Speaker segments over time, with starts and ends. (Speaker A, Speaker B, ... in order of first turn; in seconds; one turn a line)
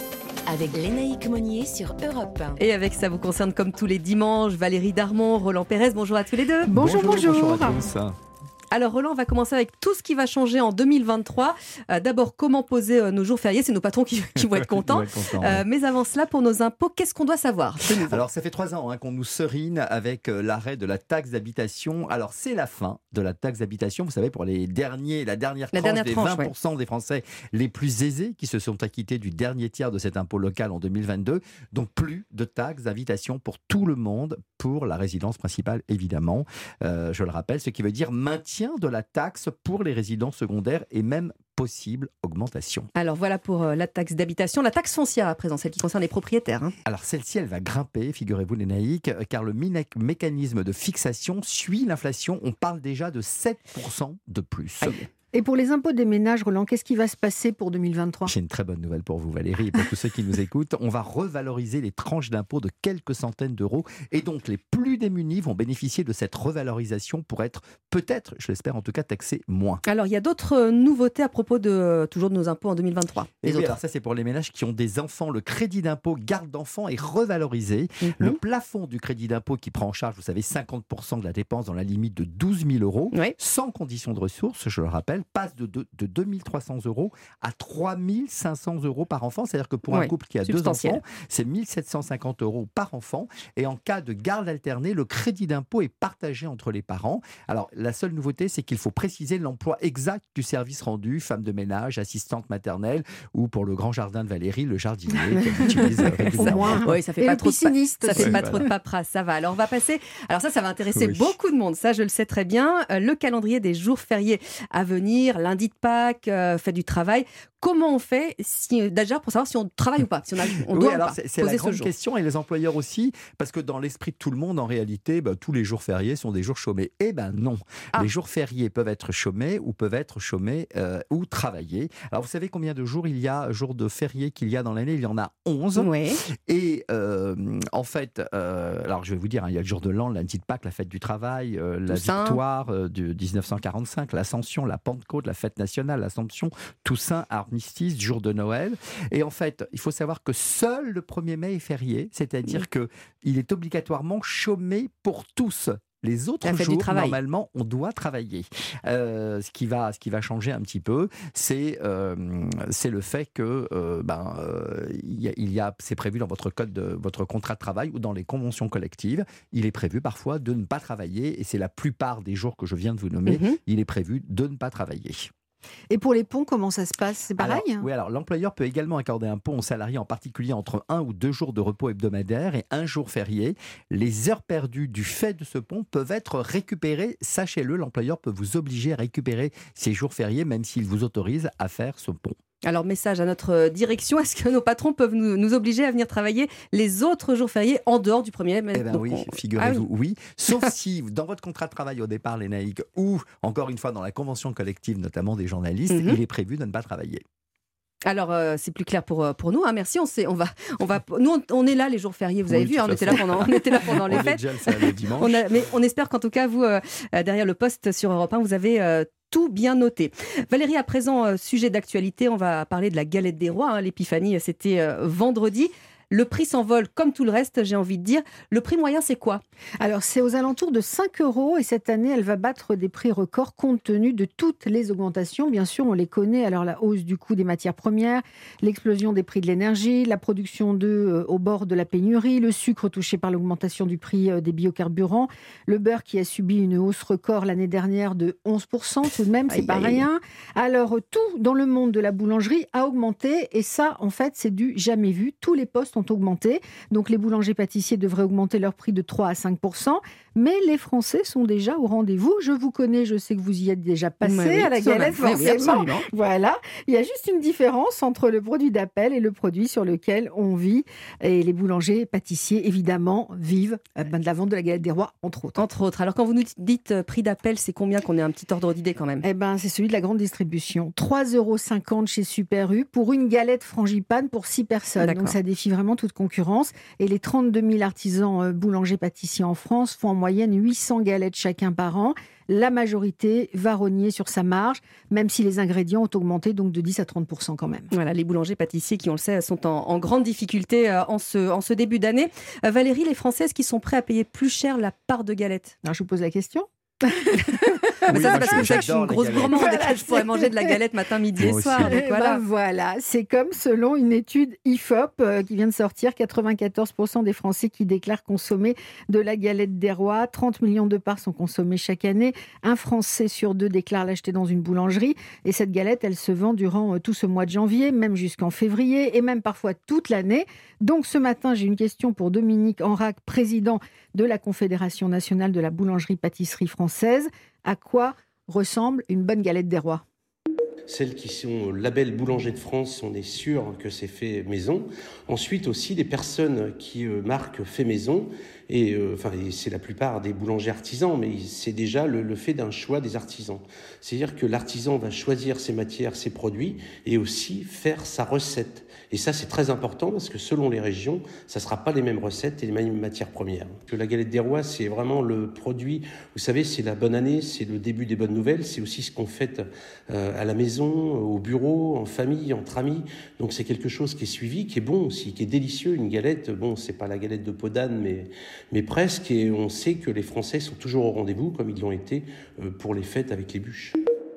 Speaker A: 0.5-2.6
Speaker B: 2.6-6.7
Speaker C: 6.7-7.8
Speaker D: 6.7-8.2
Speaker B: 8.7-18.2
Speaker D: 14.4-15.6
Speaker D: 17.9-42.9
Speaker B: 25.7-26.5
Speaker B: 42.9-46.7
Speaker D: 46.9-55.0
Speaker B: 54.8-55.1
Speaker C: 55.3-58.3
Speaker D: 58.2-69.8
Speaker B: 69.8-73.8
Speaker D: 73.4-106.8
Speaker B: 78.0-78.4
Speaker B: 89.9-91.0
Speaker B: 105.7-121.9
Speaker C: 105.7-108.7
Speaker D: 108.2-108.7
Speaker D: 110.9-111.3
Speaker D: 120.7-135.9
Speaker B: 135.8-136.2
Speaker D: 136.5-175.3
Speaker B: 141.9-142.4
Speaker B: 156.4-157.2
Speaker B: 173.3-173.6
Speaker C: 175.9-177.9
Speaker D: 177.4-192.3
Speaker B: 192.6-199.8
Speaker D: 198.7-207.2
Speaker B: 205.9-206.2
Speaker B: 208.0-229.4
Speaker D: 212.5-215.4
Speaker C: 229.8-275.6
Speaker B: 249.5-250.0
Speaker B: 264.2-266.1
Speaker B: 275.6-279.2
Speaker C: 279.2-297.9
Speaker B: 285.0-285.3
Speaker B: 297.9-305.7
Speaker C: 305.8-308.8
Speaker B: 307.5-312.4
Speaker D: 308.1-309.8
Speaker C: 309.5-310.8
Speaker D: 311.4-311.9
Speaker C: 311.7-340.0
Speaker E: 340.9-384.0